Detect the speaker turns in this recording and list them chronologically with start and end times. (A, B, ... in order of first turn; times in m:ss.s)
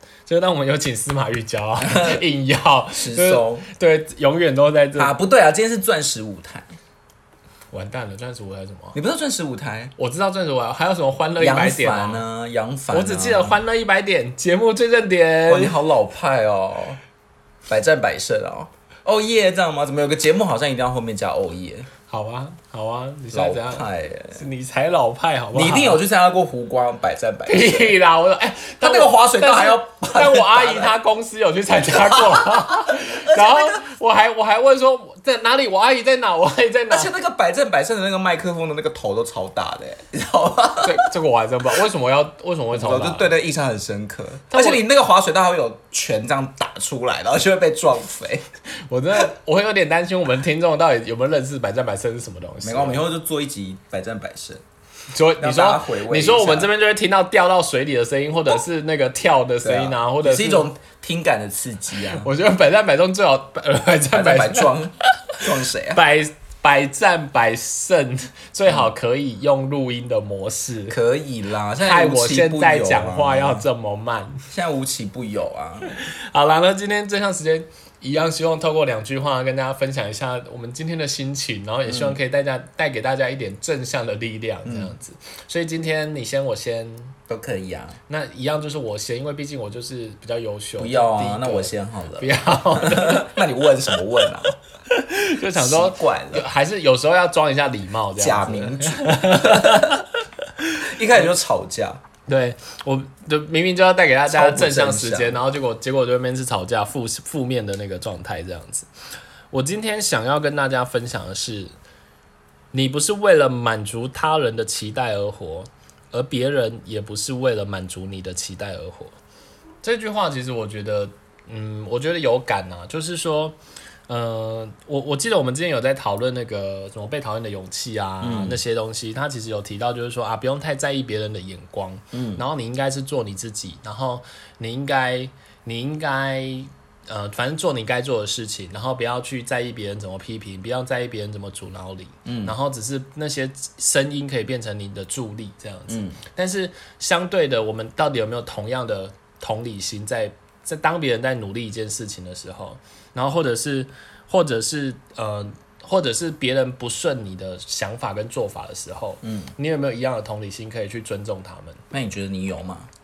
0:00.3-0:05.1 A
0:01.8-0:02.2 B
0:02.9-0:03.7 B
0:04.9-0:06.7 B
0:07.7-0:09.0 A
0:08.9-0:09.9 B
0:10.0-0:12.2 A
0:11.4-0:13.6 B
0:12.9-0:15.8 A
0:15.5-0:17.0 B
0:17.7-0:21.9 B
0:22.1-0:26.0 A
0:23.3-0:24.4 B
0:25.5-0:28.0 B
0:27.4-0:37.1 A
0:28.8-0:30.9 B
0:31.7-0:33.9 B
0:36.9-0:41.1 B
0:40.8-0:43.3 A
0:42.7-0:48.4 B
0:44.5-0:44.8 A
0:48.8-0:53.1 A
0:52.6-0:54.6 B
0:55.1-1:00.7 A
0:55.4-0:56.7 B
0:59.6-1:02.3 B
1:02.1-1:04.7 A
1:04.1-1:06.0 B
1:05.9-1:11.0 A
1:10.9-1:13.6 B
1:11.8-1:14.4 A
1:14.5-1:15.9 B
1:15.9-1:27.1 A
1:21.9-1:22.2 B
1:24.6-1:24.9 B
1:27.3-1:28.0 B
1:28.1-1:33.3 A
1:30.8-1:34.6 B
1:34.9-1:40.8 A
1:35.4-1:36.5 B
1:38.2-1:40.0 B
1:40.8-1:42.0 B
1:42.3-1:48.9 A
1:44.3-1:45.4 B
1:49.5-1:51.7 A
1:52.7-1:59.2 A
1:59.8-2:03.6 A
2:04.1-2:41.8 A
2:08.2-2:08.6 B
2:12.1-2:12.4 B
2:22.2-2:22.6 B
2:25.9-2:26.2 B
2:39.2-2:39.5 B
2:41.9-2:42.9 B